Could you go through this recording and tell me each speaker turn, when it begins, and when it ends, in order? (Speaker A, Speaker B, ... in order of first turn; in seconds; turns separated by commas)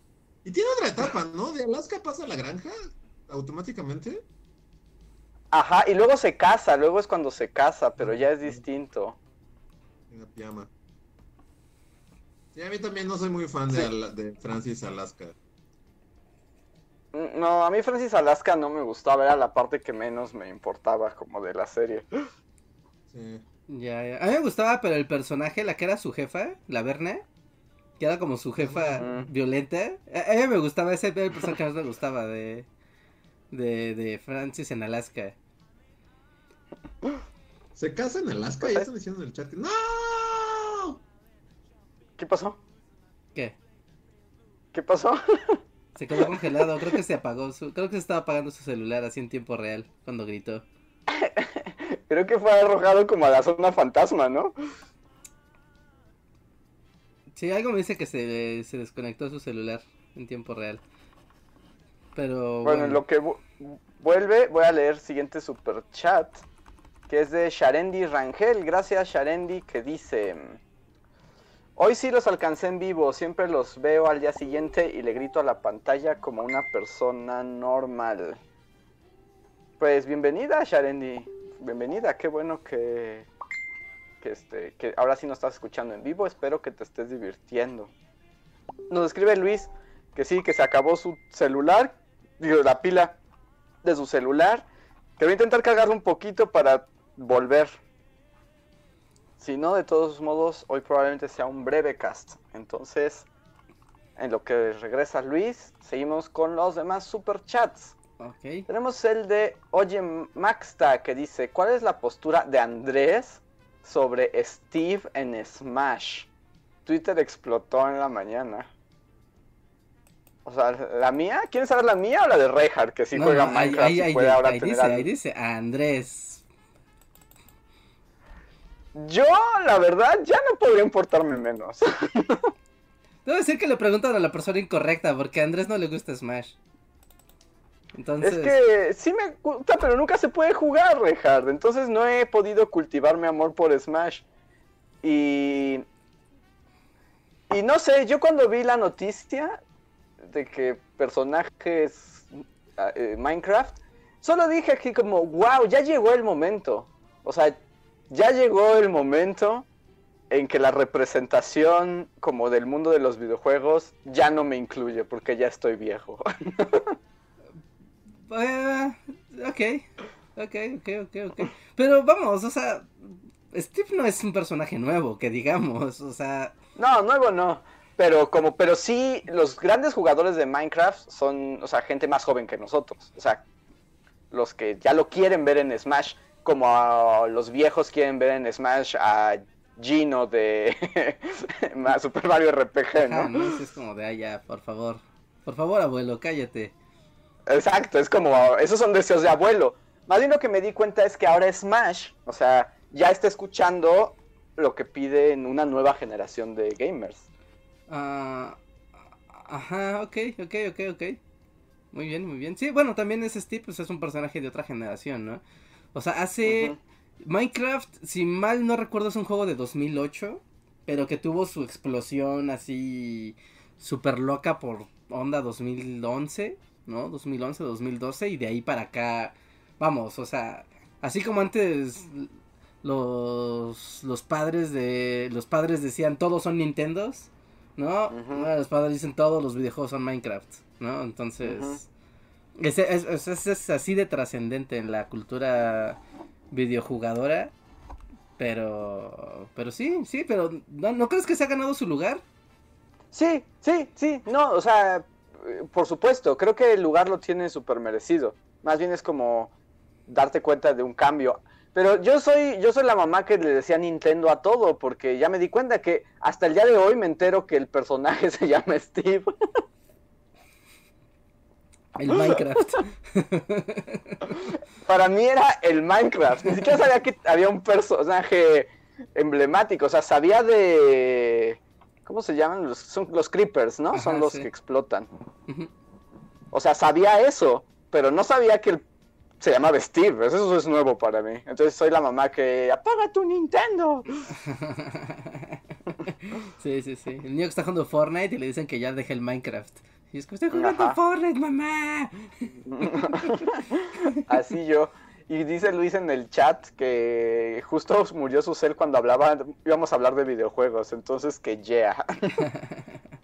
Speaker A: 0.4-4.2, Speaker B: 5.5-9.2, Speaker A: 8.0-8.6, Speaker A: 10.1-10.7, Speaker A: 12.5-15.3, Speaker B: 17.1-22.2, Speaker A: 23.1-23.4, Speaker C: 23.7-27.2, Speaker C: 28.0-32.7, Speaker A: 28.6-29.3, Speaker B: 29.0-29.3, Speaker C: 33.5-35.3, Speaker A: 37.7-41.0, Speaker B: 38.6-38.9, Speaker B: 42.2-42.6, Speaker B: 44.7-45.6, Speaker C: 46.0-50.6, Speaker B: 51.1-54.5, Speaker C: 57.3-60.8, Speaker C: 62.1-63.0, Speaker B: 62.6-66.4, Speaker B: 67.1-70.6, Speaker B: 71.8-78.4, Speaker B: 79.8-83.3, Speaker B: 84.2-87.9, Speaker B: 88.9-93.2, Speaker B: 93.8-94.7, Speaker B: 95.2-97.7, Speaker B: 99.4-103.2, Speaker B: 104.2-107.9, Speaker C: 108.2-108.7, Speaker B: 108.7-116.3, Speaker B: 116.8-118.7, Speaker B: 120.5-125.1, Speaker C: 123.1-126.4, Speaker B: 128.9-132.5, Speaker C: 133.2-136.5, Speaker C: 137.9-138.5, Speaker B: 138.2-144.2, Speaker B: 145.0-145.8, Speaker B: 147.5-149.6, Speaker B: 150.2-159.7, Speaker B: 160.3-166.9, Speaker C: 168.2-176.5, Speaker B: 176.8-183.4, Speaker B: 184.3-193.5, Speaker C: 192.9-196.7, Speaker B: 197.5-207.2, Speaker C: 207.9-208.6, Speaker C: 209.3-211.2, Speaker C: 211.9-215.4, Speaker C: 215.9-232.3, Speaker B: 216.4-216.8, Speaker C: 232.8-241.9, Speaker B: 238.1-238.5, Speaker B: 241.4-241.8, Speaker C: 242.6-246.0, Speaker C: 246.5-247.5, Speaker C: 248.4-252.2, Speaker B: 253.1-259.5, Speaker B: 260.1-269.3, Speaker C: 271.9-274.3, Speaker B: 274.8-285.1, Speaker C: 283.9-284.5, Speaker B: 286.5-288.8, Speaker B: 289.4-294.3, Speaker C: 294.4-303.3, Speaker B: 300.5-301.0, Speaker B: 302.6-312.4, Speaker C: 312.4-313.0